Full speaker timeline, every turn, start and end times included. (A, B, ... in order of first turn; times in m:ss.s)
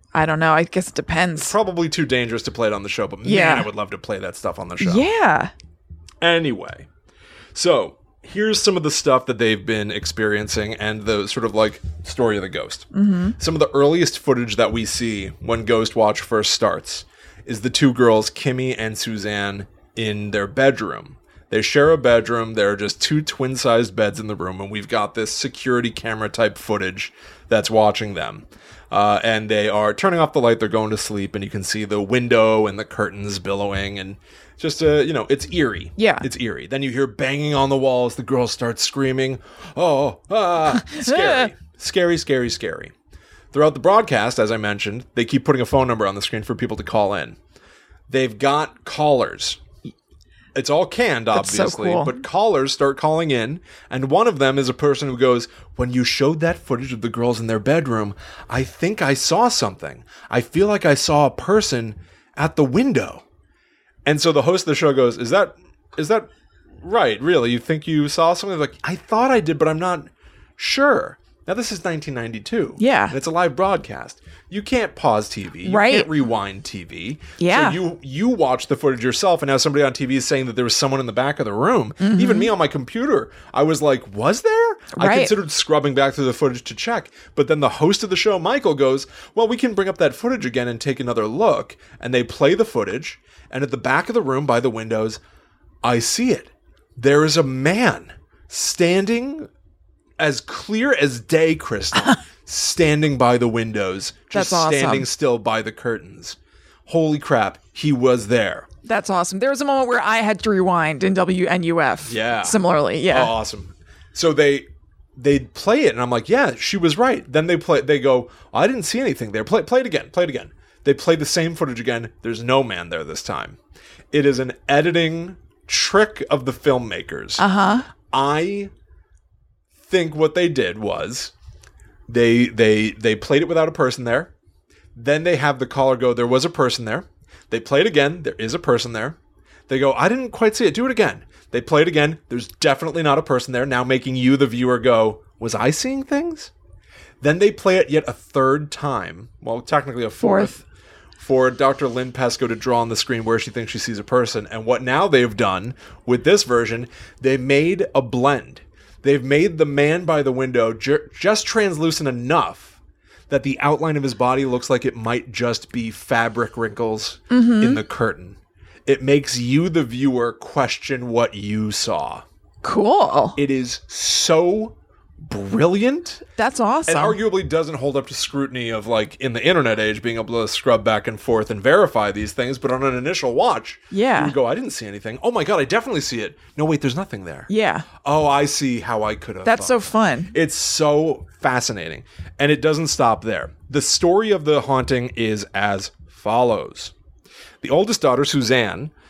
0:00.1-0:01.5 A
0:01.4-0:05.1 B
0:03.2-0:03.7 A
0:04.8-0:05.5 A
0:06.2-0:06.9 B
0:07.5-0:42.9 B
0:12.9-0:13.4 A
0:36.0-0:36.2 A
0:40.8-0:41.5 A
0:43.5-0:47.4 B
0:48.1-0:49.6 B
0:50.6-1:03.2 B
0:51.3-0:52.2 A
1:04.0-1:06.3 B
1:06.8-1:35.2 B
1:12.8-1:13.1 A
1:15.6-1:16.1 A
1:17.4-1:17.8 A
1:22.0-1:22.5 A
1:24.9-1:25.3 A
1:35.8-1:39.5 B
1:40.2-1:48.7 B
1:44.3-1:45.1 A
1:48.8-1:53.3 A
1:52.0-2:03.6 B
2:04.1-2:07.4 B
2:07.4-2:07.9 A
2:08.1-2:08.7 B
2:09.8-2:11.3 B
2:12.1-2:14.3 B
2:14.9-2:19.2 B
2:19.7-2:26.5 B
2:27.2-2:30.6 B
2:30.2-2:30.5 A
2:31.2-2:42.8 B
2:43.3-2:52.2 B
2:47.3-2:47.8 A
2:52.6-2:53.4 A
2:53.4-2:54.8 B
2:55.3-2:56.3 B
2:56.4-2:57.2 A
2:56.8-3:07.5 B
3:03.9-3:04.3 A
3:07.5-3:07.9 A
3:08.0-3:09.8 B
3:09.4-3:10.3 A
3:10.3-3:16.9 B
3:17.6-3:18.9 B